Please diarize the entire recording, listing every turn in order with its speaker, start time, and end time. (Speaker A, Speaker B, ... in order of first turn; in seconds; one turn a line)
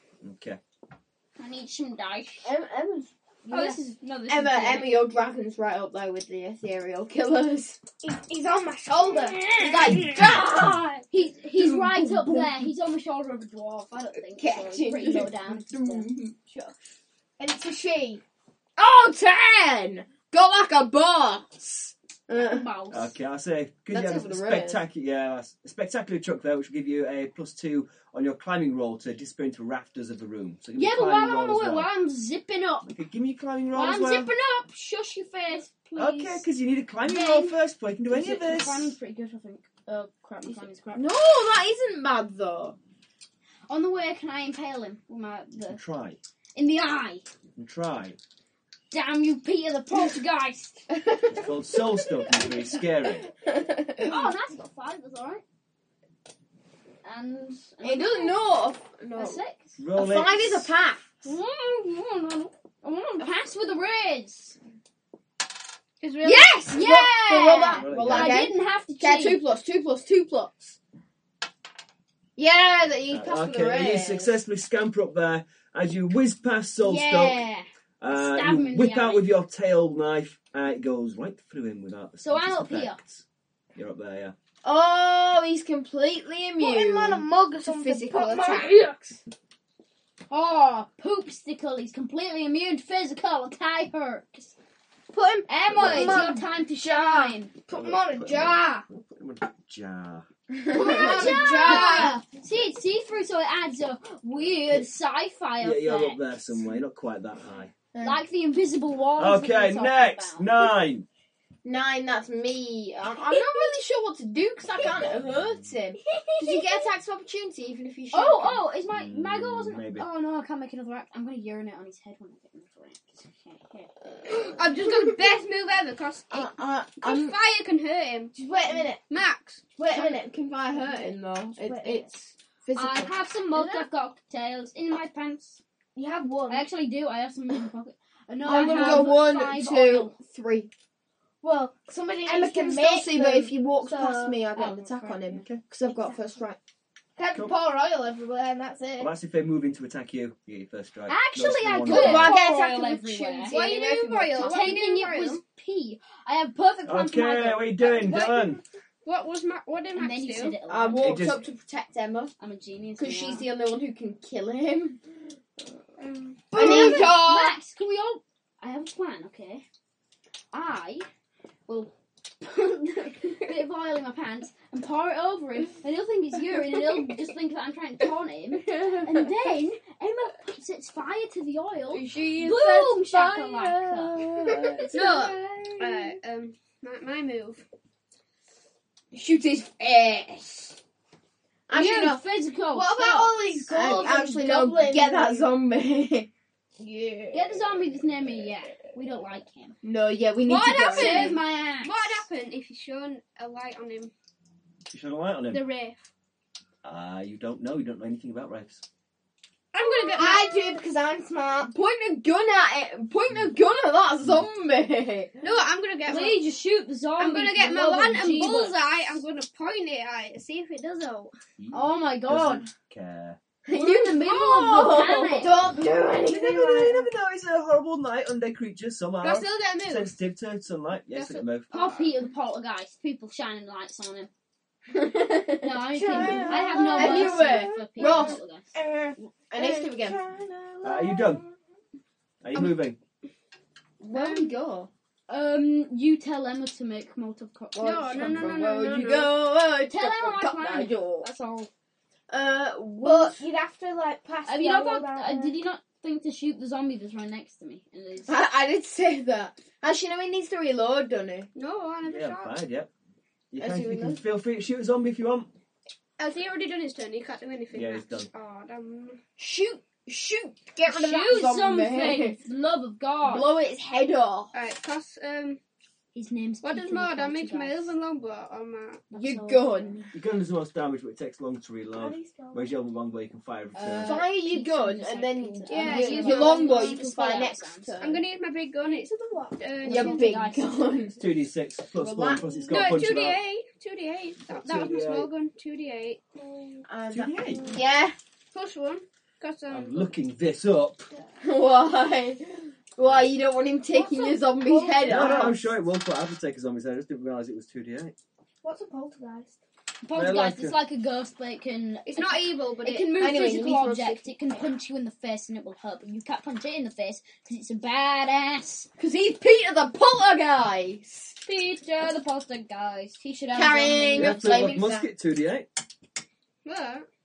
Speaker A: 0.2-0.6
Speaker B: 1.4-2.5
Speaker C: 2.4-3.1
Speaker B: 3.4-5.0
Speaker C: 4.3-7.8
Speaker D: 8.0-9.6
Speaker C: 8.9-11.1
Speaker B: 9.6-10.1
Speaker A: 10.0-10.4
Speaker B: 11.1-16.1
Speaker C: 11.6-12.6
Speaker C: 14.4-16.4
Speaker D: 17.4-18.2
Speaker C: 18.8-22.7
Speaker B: 22.3-23.1
Speaker A: 22.9-31.9
Speaker C: 23.9-24.8
Speaker B: 30.7-32.9
Speaker A: 32.9-34.3
Speaker B: 33.7-36.4
Speaker A: 36.0-39.0
Speaker B: 37.0-41.0
Speaker C: 40.9-42.8
Speaker B: 43.7-45.8
Speaker A: 45.7-46.2
Speaker B: 46.5-47.2
Speaker A: 47.5-48.2
Speaker B: 48.9-50.8
Speaker C: 51.0-51.5
Speaker A: 51.3-53.3
Speaker C: 53.4-54.3
Speaker B: 54.0-55.4
Speaker B: 57.0-58.4
Speaker C: 57.8-59.4
Speaker B: 59.1-59.8
Speaker A: 59.8-60.7
Speaker C: 59.9-61.0
Speaker B: 61.2-64.6
Speaker E: 66.0-66.5
Speaker B: 66.2-69.4
Speaker C: 66.2-70.8
Speaker A: 67.8-68.5
Speaker C: 72.4-74.3
Speaker A: 73.1-77.4
Speaker B: 76.8-79.3
Speaker A: 78.0-83.2
Speaker B: 82.2-83.0
Speaker A: 83.7-84.3
Speaker C: 84.6-88.7
Speaker D: 86.6-89.2
Speaker B: 90.3-94.5
Speaker D: 95.1-98.8
Speaker B: 95.5-97.5
Speaker A: 95.7-96.3
Speaker A: 97.7-100.2
Speaker C: 100.5-102.0
Speaker D: 100.7-102.2
Speaker B: 100.7-106.2
Speaker A: 104.5-104.8
Speaker A: 105.6-107.7
Speaker B: 108.0-110.5
Speaker A: 109.2-111.0
Speaker C: 111.6-118.7
Speaker D: 113.3-113.7
Speaker D: 116.0-116.8
Speaker B: 118.1-123.9
Speaker A: 118.9-120.0
Speaker E: 124.3-128.3
Speaker C: 126.3-127.3
Speaker C: 128.3-129.0
Speaker E: 129.1-129.6
Speaker C: 129.8-133.2
Speaker D: 129.9-130.2
Speaker D: 131.6-132.1
Speaker B: 132.7-135.6
Speaker D: 133.5-133.8
Speaker D: 135.9-136.7
Speaker B: 136.5-140.1
Speaker C: 138.4-140.7
Speaker D: 138.5-139.1
Speaker D: 141.4-145.2
Speaker C: 142.2-146.6
Speaker D: 145.8-146.2
Speaker D: 147.2-149.1
Speaker A: 149.0-152.3
Speaker B: 151.1-153.6
Speaker C: 151.8-154.8
Speaker E: 153.5-155.4
Speaker B: 154.4-157.8
Speaker A: 156.8-158.6
Speaker E: 157.8-160.6
Speaker B: 159.9-161.2
Speaker C: 160.7-162.3
Speaker A: 161.0-161.4
Speaker B: 162.4-163.4
Speaker C: 163.0-165.0
Speaker E: 166.0-166.4
Speaker D: 166.5-167.2
Speaker C: 166.5-167.6
Speaker B: 166.5-169.6
Speaker B: 170.5-171.1
Speaker B: 171.7-184.5
Speaker C: 181.9-186.1
Speaker E: 184.9-187.6
Speaker C: 189.1-190.8
Speaker C: 191.7-192.2
Speaker B: 191.7-193.3
Speaker C: 192.7-196.3
Speaker D: 192.8-195.5
Speaker D: 196.8-197.7
Speaker B: 197.3-199.8
Speaker C: 199.8-201.4
Speaker E: 200.4-204.1
Speaker B: 200.8-202.2
Speaker A: 204.9-205.6
Speaker E: 205.5-206.1
Speaker A: 206.8-208.8
Speaker E: 209.7-210.5
Speaker D: 209.8-211.7
Speaker C: 210.1-210.9
Speaker C: 211.6-215.3
Speaker E: 215.4-216.5
Speaker B: 216.1-218.9
Speaker E: 217.2-221.3
Speaker A: 221.6-223.4
Speaker B: 221.7-222.7
Speaker C: 223.7-226.7
Speaker B: 223.7-225.6
Speaker E: 224.7-225.1
Speaker D: 225.5-227.0
Speaker A: 226.3-231.7
Speaker E: 229.2-230.2
Speaker E: 231.1-232.1
Speaker B: 231.7-234.3
Speaker C: 234.9-238.4
Speaker B: 235.6-238.7
Speaker D: 235.9-240.2
Speaker C: 239.5-241.5
Speaker A: 240.8-241.4
Speaker A: 242.4-243.0
Speaker C: 244.0-244.9
Speaker E: 244.1-244.5
Speaker B: 245.3-248.6
Speaker C: 247.7-251.3
Speaker E: 247.8-249.3
Speaker B: 249.8-251.7
Speaker C: 252.3-253.5
Speaker D: 253.0-255.6
Speaker B: 254.4-258.3
Speaker C: 258.3-261.5
Speaker E: 261.5-262.6
Speaker A: 262.0-262.9
Speaker A: 263.5-265.5
Speaker C: 263.6-264.2
Speaker E: 266.2-269.2
Speaker A: 267.7-268.3
Speaker C: 269.4-272.4
Speaker B: 270.9-273.6
Speaker C: 273.2-274.5
Speaker E: 274.5-275.6
Speaker B: 276.1-277.9
Speaker E: 276.6-279.0
Speaker B: 279.1-280.1
Speaker C: 279.1-280.0
Speaker A: 280.1-284.2
Speaker D: 281.9-282.7
Speaker B: 283.7-287.9
Speaker C: 284.0-288.2
Speaker E: 285.7-287.0
Speaker E: 288.0-290.3
Speaker C: 289.8-291.2
Speaker B: 289.8-291.1
Speaker A: 291.2-293.4
Speaker C: 292.0-293.0
Speaker E: 292.7-296.3
Speaker A: 294.6-295.3
Speaker C: 296.9-298.1
Speaker A: 297.1-297.7
Speaker E: 298.5-300.1
Speaker A: 299.7-301.1
Speaker C: 301.4-305.6
Speaker D: 303.9-305.5
Speaker A: 305.0-308.1
Speaker D: 308.6-309.6
Speaker B: 310.0-318.9
Speaker A: 310.1-310.8
Speaker E: 312.1-313.2
Speaker C: 313.1-314.2
Speaker C: 319.0-321.4
Speaker B: 321.4-324.8
Speaker C: 323.5-325.1
Speaker A: 324.1-325.7
Speaker E: 326.6-327.1